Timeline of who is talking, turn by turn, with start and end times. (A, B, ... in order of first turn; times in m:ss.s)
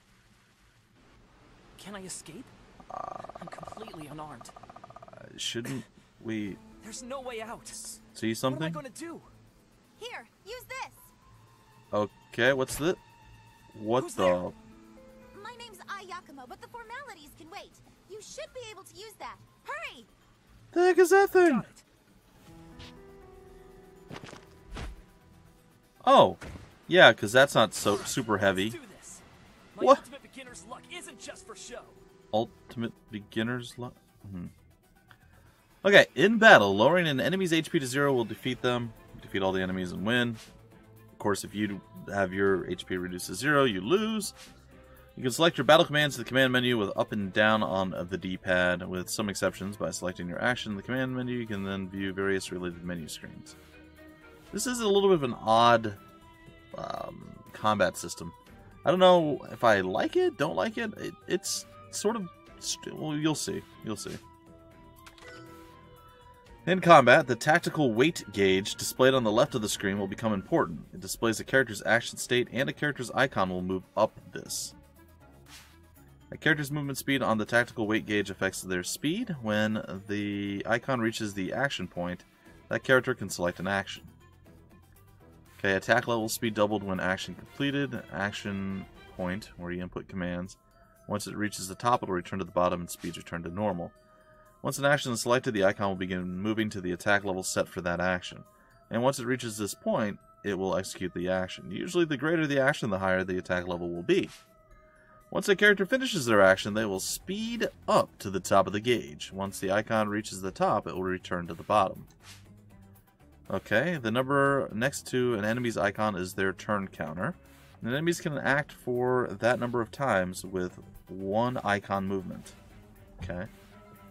0:01.8-0:02.5 A
0:02.9-0:03.3 B
0:03.3-0:04.5 A
0:05.0-0:06.6 B
0:06.8-0:09.3 A
0:08.1-0:08.8 B
0:10.0-0:11.1 C
0:11.9-0:13.0 B
0:13.7-0:14.6 B
0:14.0-0:14.4 A
0:15.3-0:20.1 C
0:20.7-0:21.7 B
0:21.4-0:21.8 A
0:26.0-0:28.8 B
0:27.8-0:29.2 A
0:29.8-0:32.0 A
0:29.8-0:30.0 B
0:32.3-0:34.5 B
0:35.8-0:40.4 B
0:41.1-0:44.4 B
0:45.2-0:53.6 B
0:54.5-0:56.0 B
0:56.7-1:04.2 B
1:06.7-1:14.8 B
1:16.3-1:24.1 B
1:25.6-1:33.9 B
1:34.6-1:44.3 B
1:45.3-1:52.1 B
1:53.5-2:02.6 B
2:03.2-2:03.5 B